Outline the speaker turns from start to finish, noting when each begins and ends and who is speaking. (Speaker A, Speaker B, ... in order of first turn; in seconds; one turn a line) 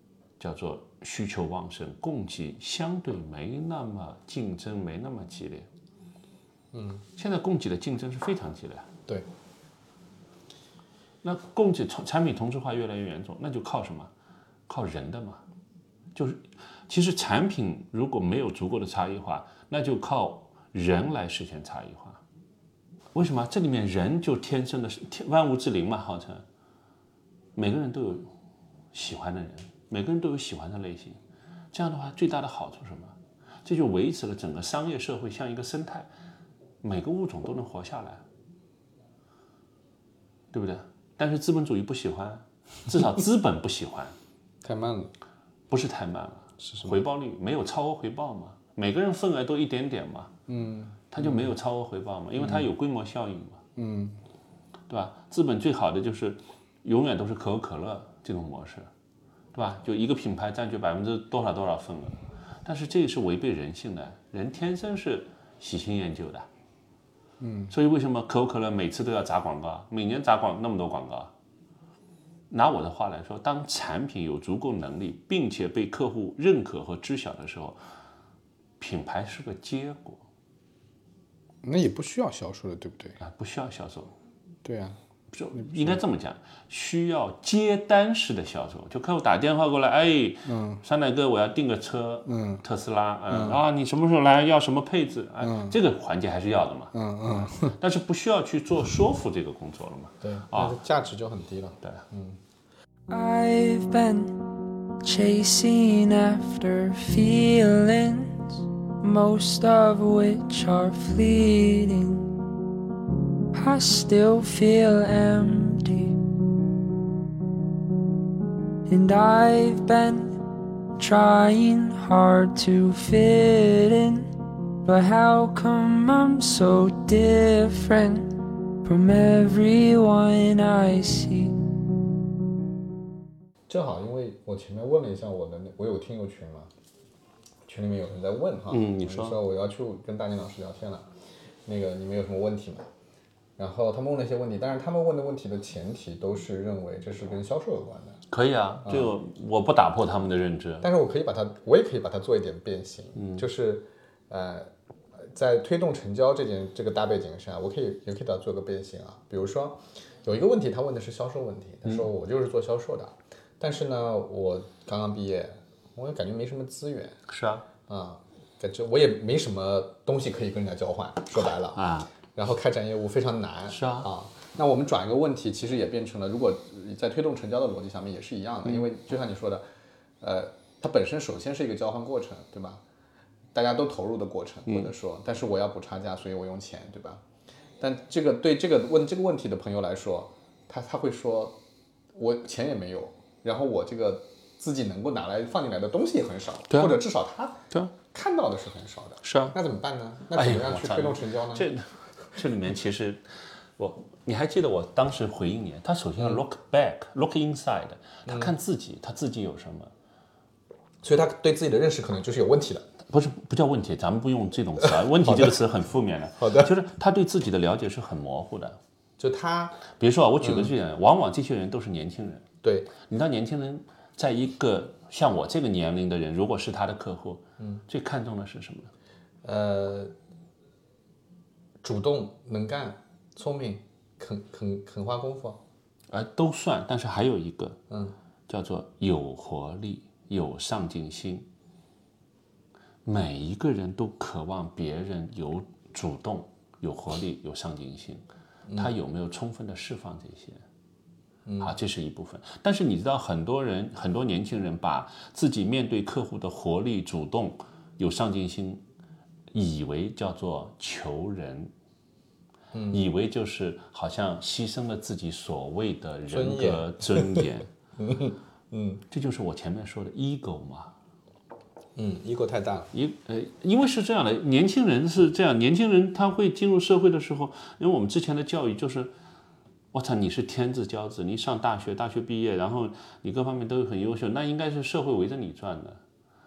Speaker A: 0.4-5.7
Speaker B: 6.7-7.0
Speaker A: 7.2-8.9
Speaker A: 11.2-14.1
Speaker A: 14.7-15.4
Speaker A: 16.1-22.2
Speaker A: 23.1-26.4
Speaker A: 27.6-28.3
Speaker A: 28.9-31.2
Speaker A: 31.7-36.1
Speaker A: 36.8-38.2
Speaker A: 40.5-44.1
Speaker B: 44.6-45.1
Speaker A: 45.7-50.3
Speaker B: 46.6-47.0
Speaker B: 50.5-51.5
Speaker A: 51.1-53.6
Speaker B: 52.4-52.7
Speaker B: 53.8-54.2
Speaker A: 54.9-58.9
Speaker A: 59.5-66.5
Speaker B: 67.4-67.7
Speaker A: 67.7-71.3
Speaker A: 72.5-77.8
Speaker A: 78.8-80.2
Speaker B: 81.6-83.2
Speaker A: 83.2-84.1
Speaker B: 84.6-85.0
Speaker A: 85.3-100.8
Speaker B: 85.5-86.0
Speaker B: 90.5-90.8
Speaker B: 92.3-92.6
Speaker B: 93.3-93.6
Speaker B: 95.4-95.8
Speaker B: 96.9-97.8
Speaker B: 100.2-102.4
Speaker C: 103.1-104.4
Speaker C: 105.0-112.3
Speaker C: 113.5-116.2
Speaker C: 118.9-120.4
Speaker C: 121.0-124.3
Speaker C: 124.8-131.6
Speaker B: 133.7-136.7
Speaker B: 137.7-141.1
Speaker A: 138.7-139.4
Speaker B: 141.7-142.8
Speaker B: 143.6-148.2
Speaker A: 148.3-150.9
Speaker B: 148.8-149.1
Speaker B: 150.8-167.2
Speaker A: 153.2-153.4
Speaker A: 167.3-167.7
Speaker B: 167.9-179.7
Speaker A: 171.4-172.1
Speaker A: 173.7-174.1
Speaker B: 180.2-182.8
Speaker B: 183.5-187.2
Speaker B: 187.8-191.6
Speaker B: 192.1-201.7
Speaker A: 196.7-197.0
Speaker A: 199.2-199.6
Speaker A: 200.3-203.2
Speaker A: 203.8-209.9
Speaker B: 208.3-208.5
Speaker B: 211.0-212.9
Speaker A: 213.1-218.8
Speaker B: 214.8-215.6
Speaker B: 216.4-216.7
Speaker B: 219.2-219.8
Speaker A: 219.9-222.4
Speaker B: 220.4-220.7
Speaker B: 222.6-222.9
Speaker A: 223.0-228.9
Speaker B: 229.4-230.1
Speaker B: 231.8-235.6
Speaker A: 236.1-237.8
Speaker B: 237.9-238.2
Speaker A: 238.5-241.5
Speaker A: 243.1-248.2
Speaker B: 248.7-248.9
Speaker A: 248.8-250.6
Speaker B: 251.5-251.7
Speaker A: 251.6-258.8
Speaker A: 259.5-261.7
Speaker B: 262.7-263.0
Speaker A: 262.9-267.7
Speaker B: 266.3-267.5
Speaker B: 268.0-269.0
Speaker A: 269.1-270.9
Speaker B: 272.0-272.9
Speaker A: 272.9-279.1
Speaker A: 279.9-286.0